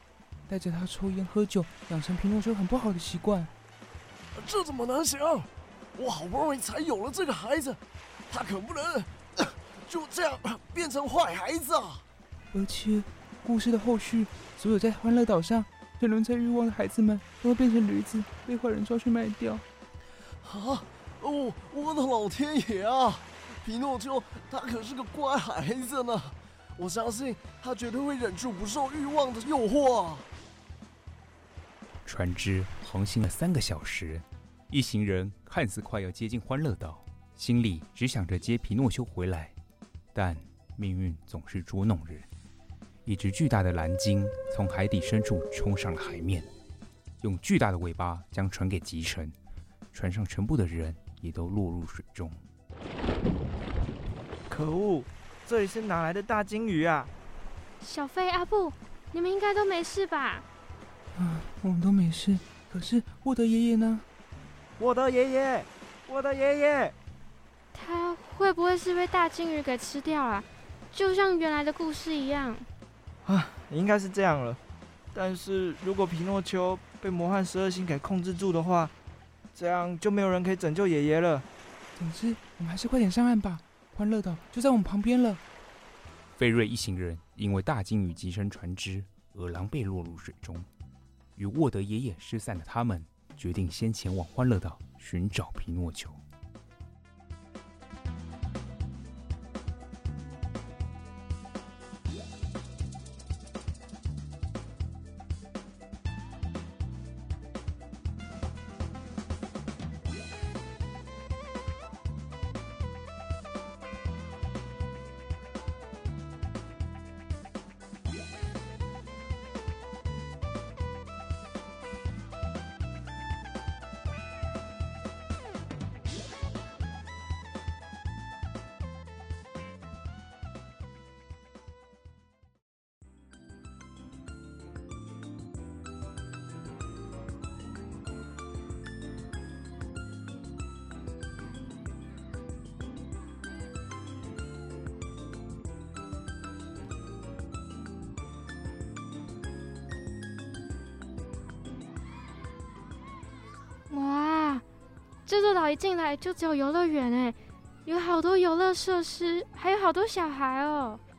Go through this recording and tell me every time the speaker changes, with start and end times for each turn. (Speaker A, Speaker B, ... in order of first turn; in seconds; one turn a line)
Speaker A: 0.5-3.5
Speaker B: 4.3-12.0
Speaker A: 12.5-19.6
Speaker B: 20.4-30.2
Speaker C: 32.0-39.5
Speaker C: 40.1-42.3
Speaker C: 43.0-46.5
Speaker C: 47.2-49.3
Speaker C: 49.9-52.4
Speaker D: 54.5-57.1
Speaker E: 57.8-60.5
Speaker A: 61.1-64.0
Speaker D: 64.8-66.9
Speaker E: 67.7-72.7
Speaker D: 73.2-74.6
Speaker D: 75.1-78.9
Speaker D: 79.5-81.5
Speaker A: 82.0-85.4
Speaker C: 86.4-90.7
Speaker C: 91.3-96.2
Speaker E: 153.9-154.6
Speaker E: 155.2-161.0